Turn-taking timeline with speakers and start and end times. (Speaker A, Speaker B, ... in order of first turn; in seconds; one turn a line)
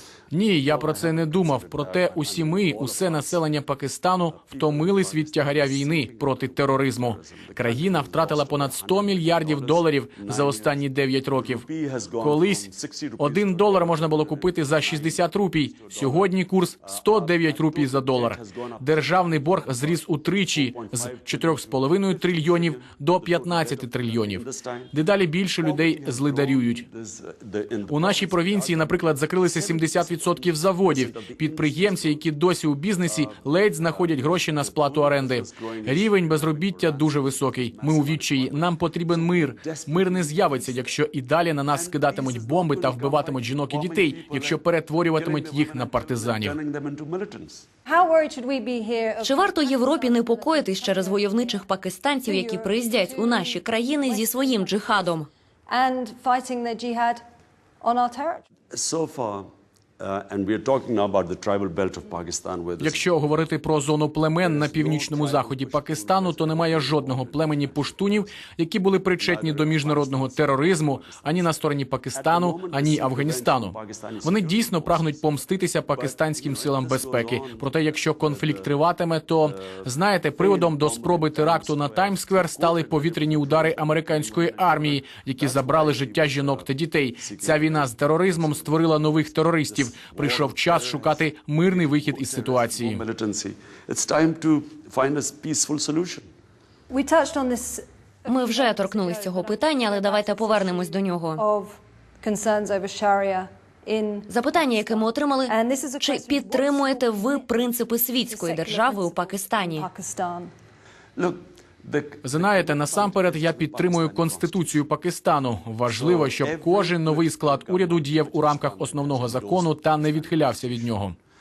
Speaker A: 0.3-11.6
Speaker B: 0.6-3.4
Speaker B: 4.3-24.9
Speaker A: 12.2-12.7
Speaker A: 13.2-26.8
Speaker B: 25.6-32.2
Speaker A: 27.9-46.6
Speaker B: 33.0-40.9
Speaker B: 41.7-47.6
Speaker C: 47.9-51.6
Speaker D: 49.2-55.3
Speaker C: 52.2-55.1
Speaker C: 55.7-57.2
Speaker C: 57.8-58.4
Speaker B: 58.7-63.0
Speaker A: 62.8-93.0
Speaker B: 64.4-68.4
Speaker B: 69.2-71.5
Speaker B: 72.1-75.3
Speaker B: 75.9-78.8
Speaker B: 79.5-88.8
Speaker B: 89.7-96.3
Speaker C: 96.9-110.5
Speaker D: 98.3-101.4
Speaker D: 104.3-109.8
Speaker B: 111.2-114.8
Speaker A: 112.2-121.1
Speaker B: 115.8-120.9